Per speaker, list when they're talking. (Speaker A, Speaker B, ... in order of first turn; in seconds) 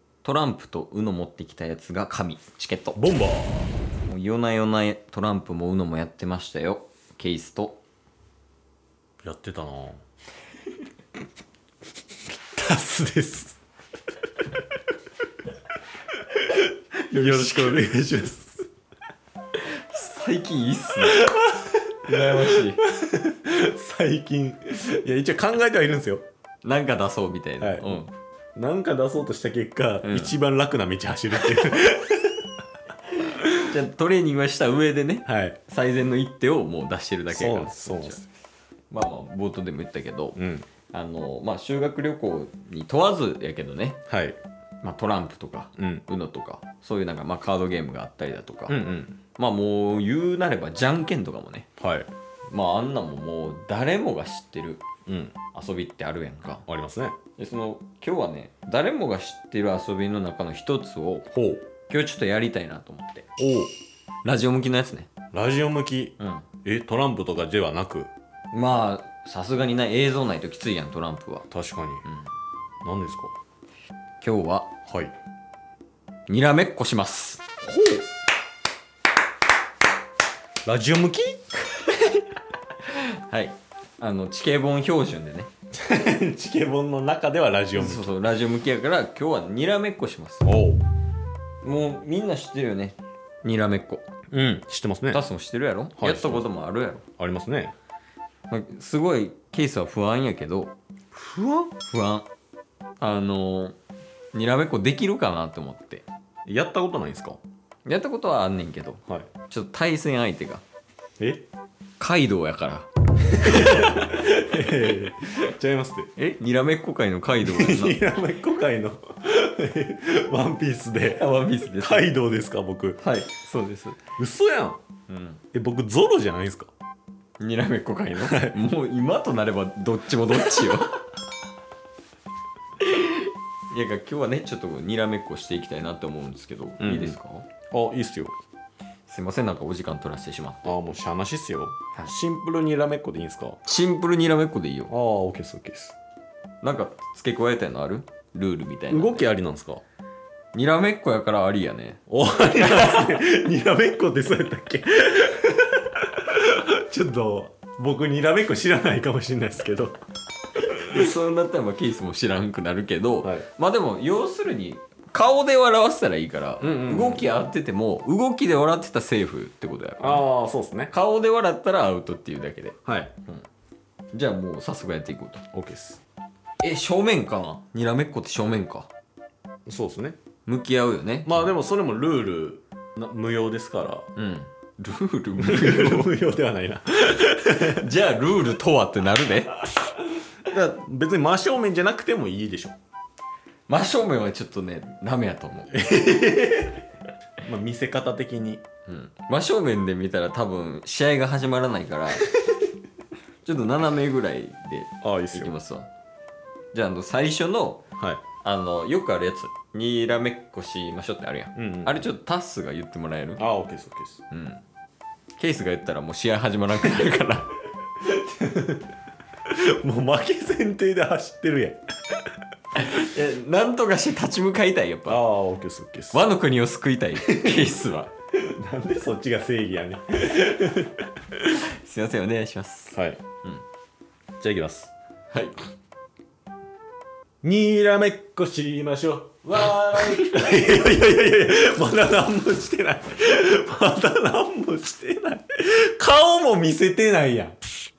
Speaker A: 0.2-3.0, 4.1-7.8, 17.1-17.9, 19.6-21.3, 22.1-22.8, 26.6-28.1, 30.0-30.3, 33.1-38.2, 38.9-40.4, 40.9-44.0, 44.8-48.8, 49.4-51.7, 52.5-54.9, 55.5-56.6, 57.4-61.3, 61.9-63.3, 64.2-65.1, 66.2-66.5, 68.5-71.5, 72.0-72.3, 74.2-74.7, 76.3-77.6, 81.9-82.2, 82.9-85.5, 87.8-90.5, 91.6-94.0, 95.1-97.0, 98.5-100.7, 101.9-102.3, 103.0-103.8, 104.3-106.0, 107.9-110.6, 112.0-114.5, 116.2-118.0, 121.2-122.1, 123.0-124.0, 125.1-125.4, 127.4-131.0, 132.8-137.5, 139.1-140.8, 143.7-144.9, 146.6-149.2, 150.5-152.0, 152.6-153.2, 160.7-170.2, 170.9-173.4, 174.1-175.4, 176.6-178.9, 180.5-181.4, 184.2-186.1, 187.6-189.7, 193.7-196.0, 198.9-202.3, 203.4-205.9, 206.7-207.8, 208.4-213.4, 214.3-214.6, 215.4-217.5, 222.8-225.2, 226.1-228.1, 231.3-233.6, 235.3-235.6, 239.4-241.0
Speaker B: 3.0-3.7, 9.2-10.0, 12.5-13.6, 16.4-18.7, 21.0-26.2, 27.6-28.0, 28.6-32.5, 35.3-35.6, 37.3-38.2, 40.4-40.7, 44.1-44.4, 45.8-46.0, 48.7-49.2, 51.8-52.1, 55.1-55.4, 56.7-57.2, 61.3-61.6, 63.4-63.7, 65.3-68.1, 71.5-72.0, 72.8-73.3, 74.9-75.1, 77.7-78.0, 80.7-81.5, 85.8-88.1, 90.4-90.8, 94.3-95.2, 96.0-96.5, 97.2-97.7, 101.1-101.7, 106.5-107.4, 113.3-116.1, 117.4-123.0, 124.2-124.8, 125.5-126.7, 128.2-128.6, 136.8-137.2, 137.7-138.3, 140.7-143.6, 144.9-145.9, 148.9-149.8, 152.1-160.0, 166.6-167.3, 170.0-170.9, 172.9-173.1, 175.5-176.0, 179.7-180.2, 181.3-184.1, 185.4-187.9, 190.5-192.8, 195.7-196.8, 197.4-198.6, 205.0-205.5, 211.6-212.0, 213.4-214.2, 218.0-218.9, 219.5-221.8, 225.1-226.2, 227.2-227.7, 228.4-231.1, 232.9-233.2, 234.4-234.9, 237.4-247.6